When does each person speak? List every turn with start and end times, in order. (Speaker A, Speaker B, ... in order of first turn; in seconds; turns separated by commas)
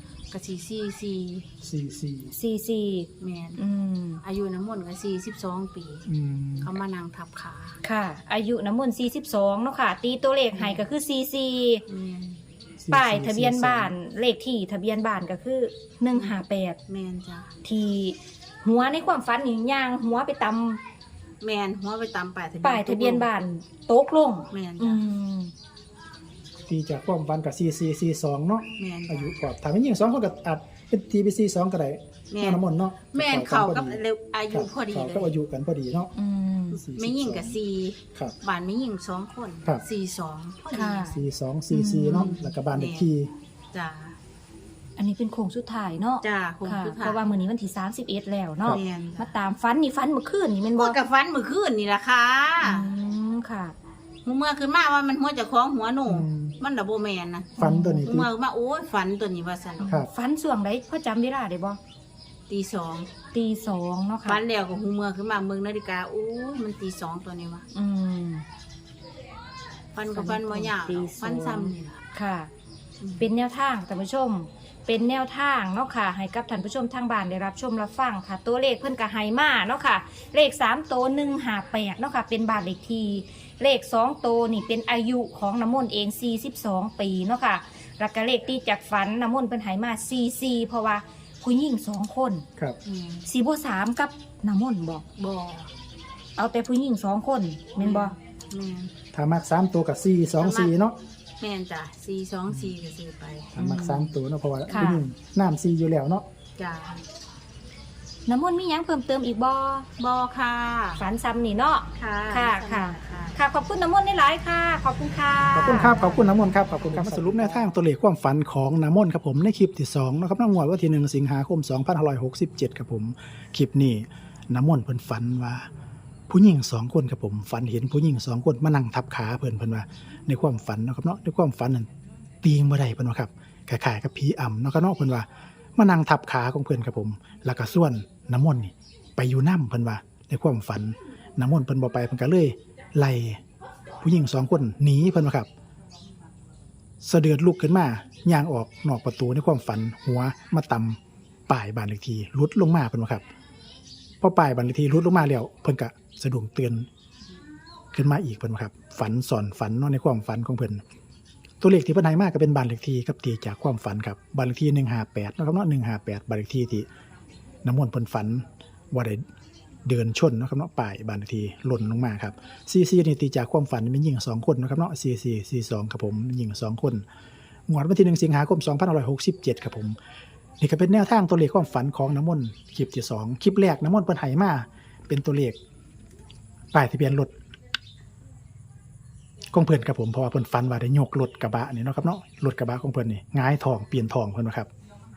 Speaker A: 0.3-1.5, Speaker B: 1.6-2.3, Speaker C: 2.3-4.2, Speaker A: 3.2-3.6, Speaker A: 4.2-6.1, Speaker B: 6.1-6.7, Speaker A: 6.6-7.8, Speaker C: 7.8-11.8, Speaker A: 10.5-10.8, Speaker A: 11.9-12.4, Speaker B: 12.8-13.9, Speaker C: 12.9-16.8, Speaker A: 16.1-17.5, Speaker C: 17.6-20.8, Speaker A: 21.4-23.3, Speaker C: 22.6-25.5, Speaker A: 24.5-25.0, Speaker B: 26.7-36.1, Speaker A: 28.8-29.4, Speaker A: 32.3-35.3, Speaker C: 36.1-36.8, Speaker B: 36.8-37.6, Speaker A: 36.8-41.2, Speaker C: 40.7-41.2, Speaker B: 41.1-43.3, Speaker C: 41.7-42.3, Speaker A: 42.1-43.1, Speaker A: 43.7-44.2, Speaker C: 45.0-51.0, Speaker A: 46.2-47.2, Speaker A: 48.7-49.3, Speaker A: 50.8-52.9, Speaker C: 52.6-53.7, Speaker A: 54.2-60.0, Speaker B: 56.1-56.5, Speaker B: 57.6-58.3, Speaker C: 57.6-58.1, Speaker C: 59.8-61.8, Speaker A: 62.5-63.1, Speaker C: 63.3-64.4, Speaker A: 64.2-67.7, Speaker C: 67.7-68.4, Speaker A: 69.9-72.0, Speaker C: 70.1-72.5, Speaker C: 73.2-92.5, Speaker A: 92.8-93.2, Speaker C: 93.2-95.0, Speaker A: 95.2-95.7, Speaker C: 96.4-98.1, Speaker A: 97.8-98.9, Speaker B: 99.1-100.9, Speaker A: 100.4-100.8, Speaker A: 101.4-103.5, Speaker B: 103.5-106.2, Speaker C: 103.6-104.1, Speaker C: 104.7-105.0, Speaker A: 106.6-107.0, Speaker C: 108.3-109.9, Speaker A: 110.0-111.0, Speaker C: 111.0-116.2, Speaker A: 112.0-113.4, Speaker B: 115.5-125.7, Speaker A: 117.0-117.4, Speaker B: 126.3-131.9, Speaker B: 132.4-143.4, Speaker B: 144.0-145.5, Speaker B: 147.0-153.2, Speaker B: 154.2-156.9, Speaker B: 157.9-160.8, Speaker B: 161.6-166.9, Speaker B: 167.6-169.2, Speaker B: 169.8-177.0, Speaker B: 177.7-179.9, Speaker B: 180.6-185.6, Speaker B: 186.7-187.3, Speaker B: 189.5-194.7